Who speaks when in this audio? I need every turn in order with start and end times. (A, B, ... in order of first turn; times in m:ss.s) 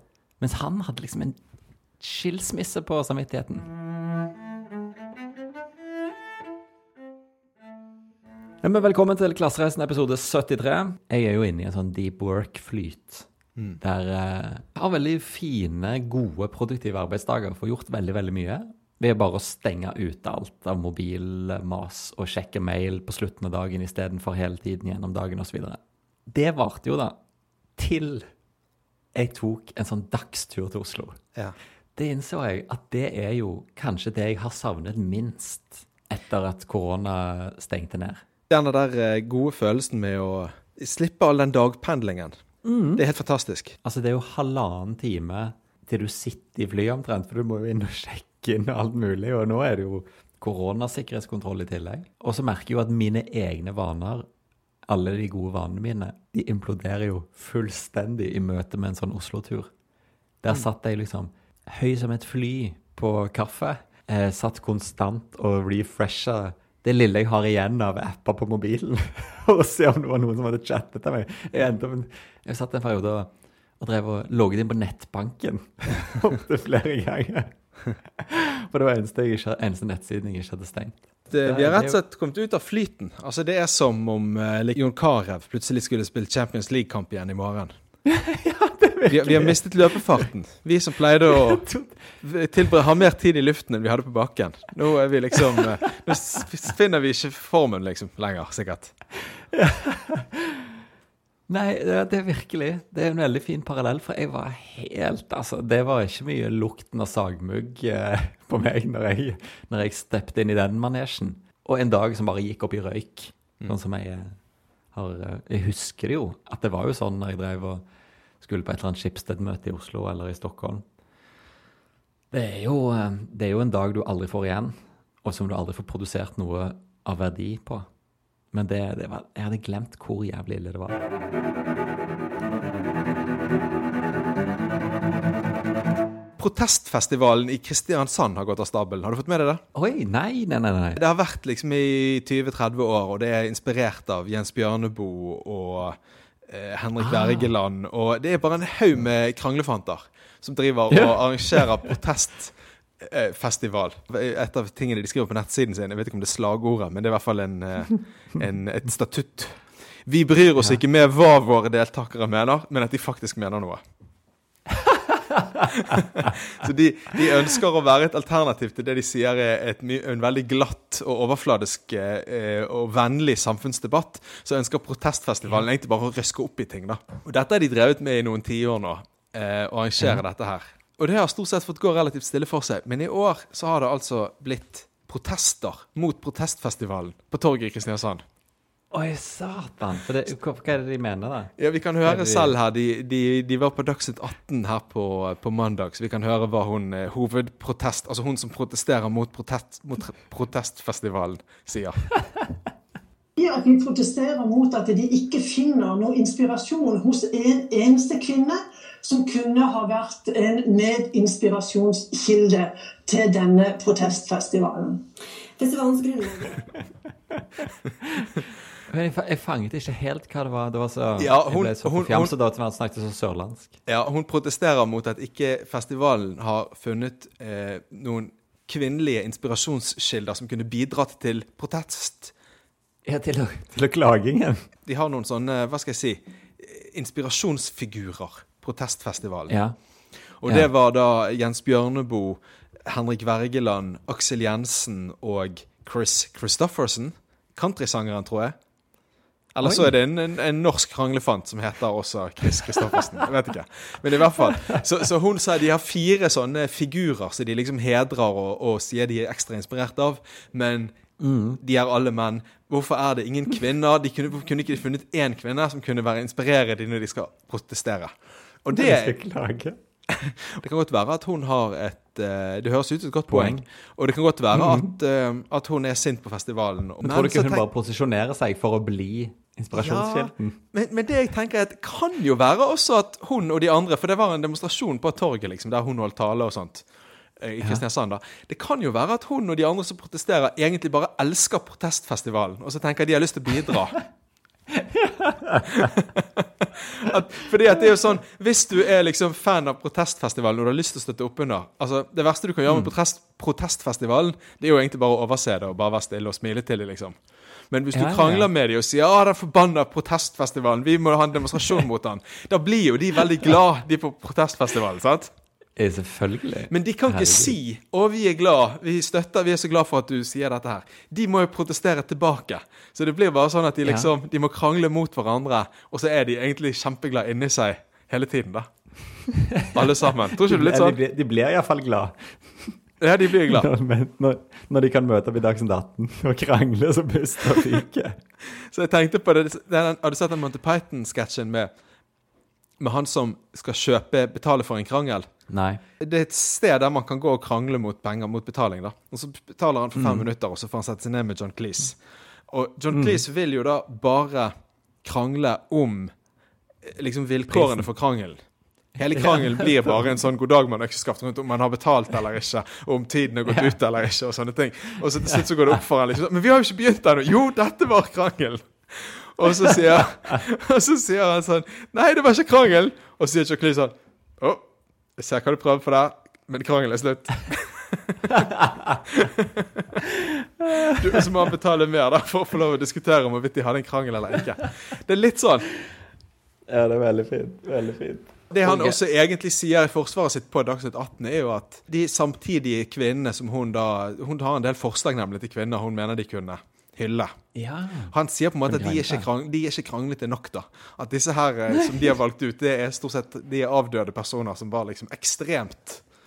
0:00.4-0:01.4 A
0:02.0-0:03.7 A
0:08.6-0:13.3 A
0:13.8-0:27.2 A
0:27.8-0:28.3 A
0:29.1-0:31.2 A
0:32.0-0:38.2 A
0:38.5-0:42.4 B
0:42.6-0:43.0 A
0:43.0-0:43.8 B
0:43.8-0:54.3 A
0:54.9-0:59.7 A
1:00.4-1:17.5 A
1:18.2-1:22.0 A
1:21.3-1:27.7 B
1:28.1-1:30.3 A
1:29.1-1:31.6 B
1:31.3-1:32.0 A
1:32.2-1:38.9 B
1:35.6-1:36.2 A
1:39.5-1:40.7 A
1:41.5-1:54.4 A
1:54.9-1:57.8 A
1:58.4-2:00.8 A
2:02.3-2:07.8 A
2:08.5-2:11.0 A
2:16.4-2:19.6 B
2:19.8-2:21.0 A
2:21.0-2:43.8 B
2:27.0-2:27.5 A
2:30.9-2:31.2 A
2:44.8-2:46.3 A
2:45.7-3:08.2 B
3:08.9-3:12.6 A
3:11.6-3:22.0 B
3:23.4-3:35.1 C
3:35.6-3:36.7 C
3:38.0-3:38.3 A
3:38.9-3:43.8 A
3:41.2-3:42.3 B
3:43.8-3:52.3 B
3:53.0-3:54.6 A
3:54.8-3:59.5 B
3:59.5-3:59.7 A
4:00.4-4:08.6 B
4:09.5-4:20.9 B
4:09.6-4:09.9 A
4:21.2-4:21.6 A
4:21.6-4:28.1 B
4:28.6-4:29.1 B
4:28.7-4:29.8 A
4:30.1-4:37.6 B
4:33.3-4:33.6 A
4:34.5-4:34.9 A
4:37.0-4:40.6 A
4:39.7-4:46.8 B
4:47.4-4:54.0 B
4:54.8-4:56.0 A
4:55.8-5:15.3 B
5:07.9-5:08.5 A
5:15.8-5:17.5 A
5:16.7-5:28.7 B
5:23.8-5:24.1 A
5:29.4-5:32.8 A
5:29.7-5:31.0 B
5:33.0-5:33.7 B
5:33.4-5:38.2 A
5:38.5-5:41.7 B
5:42.8-5:45.3 B
5:45.5-5:45.8 A
5:46.0-5:54.5 B
5:50.0-5:50.2 A
5:52.9-5:53.2 A
5:55.0-5:56.1 B
5:56.8-5:58.4 B
5:57.5-5:57.8 A
5:59.0-6:18.5 B
5:59.1-5:59.9 A
6:09.6-6:10.4 A
6:18.3-6:19.0 A
6:19.1-6:19.8 B
6:20.2-6:21.2 A
6:20.7-6:25.7 B
6:26.7-6:29.0 A
6:28.5-6:37.3 B
6:37.5-6:38.1 A
6:38.1-6:46.0 B
6:38.7-6:39.2 A
6:41.7-6:42.0 A